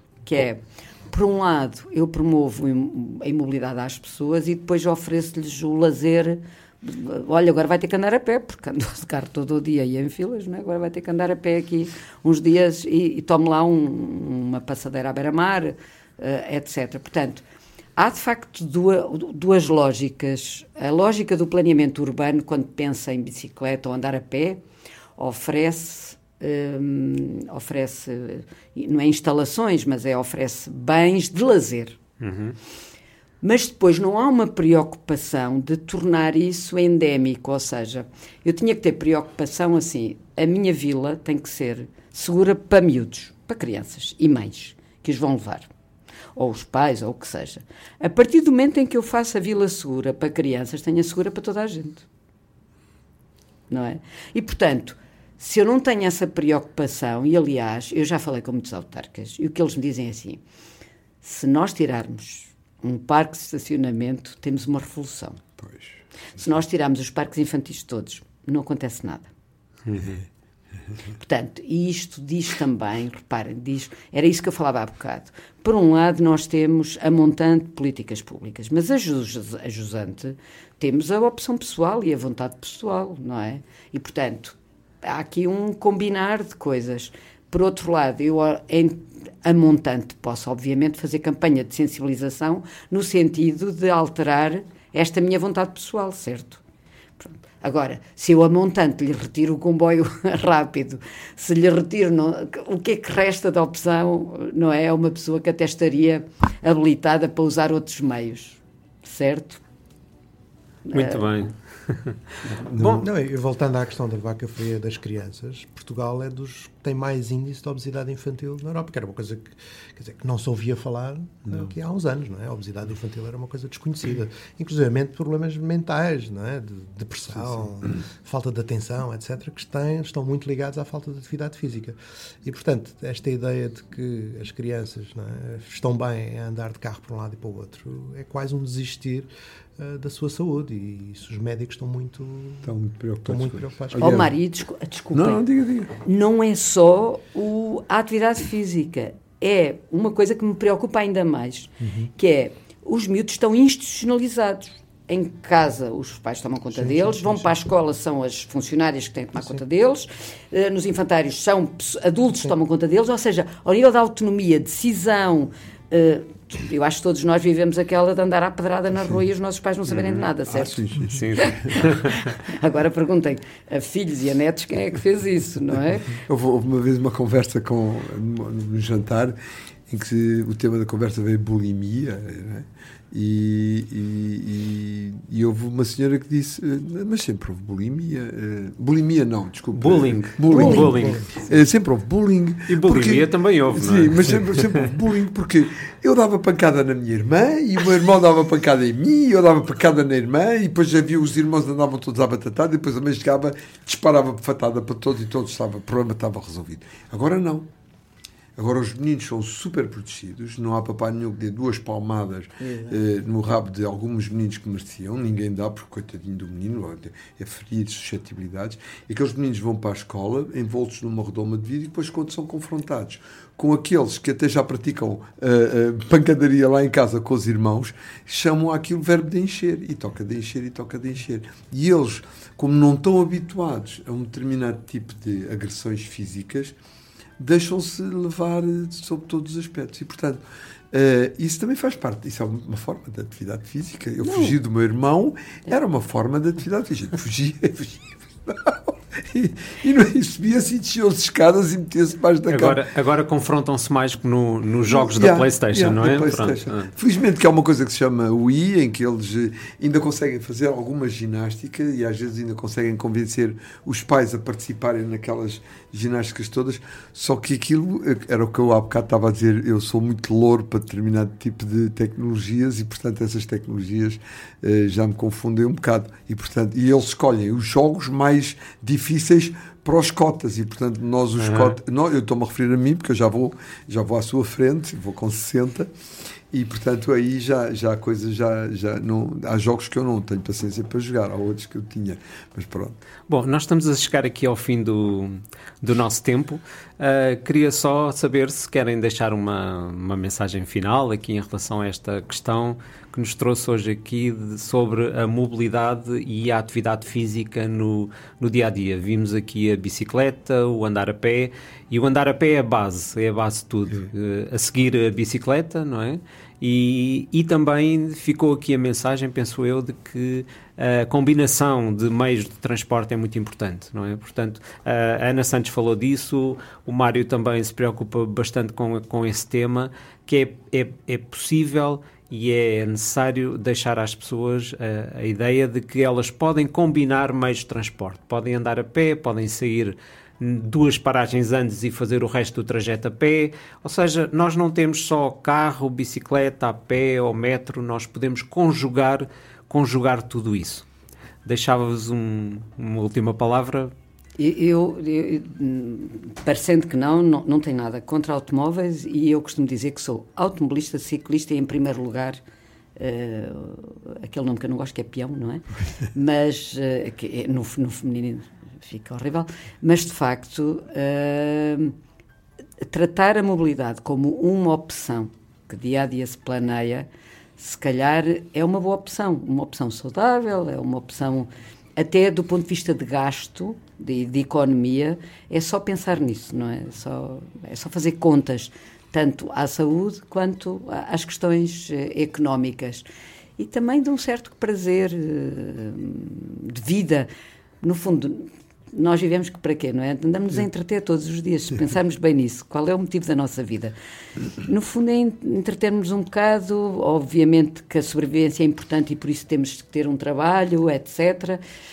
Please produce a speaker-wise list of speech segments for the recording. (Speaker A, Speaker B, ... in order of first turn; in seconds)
Speaker A: 0.2-17.4, 17.9-24.6, 25.2-32.0, 33.4-45.7, 46.4-52.0, 53.7-60.4, 61.2-65.4, 66.3-69.3, 71.2-96.6, 97.2-109.6, 110.8-111.3, 143.9-145.4, 146.0-170.8, 171.3-176.2, 190.5-190.9, 212.6-213.0, 244.2-244.6, 354.4-362.4, 362.9-371.9, 372.8-377.1, 377.6-393.1, 393.6-397.3, 397.8-403.9, 404.6-411.6
Speaker B: 32.2-32.5, 69.8-70.2, 110.9-112.2, 112.8-113.0, 171.1-172.2, 189.7-191.2, 192.7-194.6, 252.5-256.9, 281.4-281.8, 293.3-350.8, 351.4-353.9
Speaker C: 65.6-65.9, 112.5-113.1, 142.6-144.3, 145.1-145.9, 170.4-171.9, 176.2-179.3, 179.9-207.7, 208.6-236.7, 237.4-252.8, 254.9-285.9, 286.5-293.0
Speaker D: 113.0-142.7, 143.2-144.2, 151.8-152.1, 190.5-191.2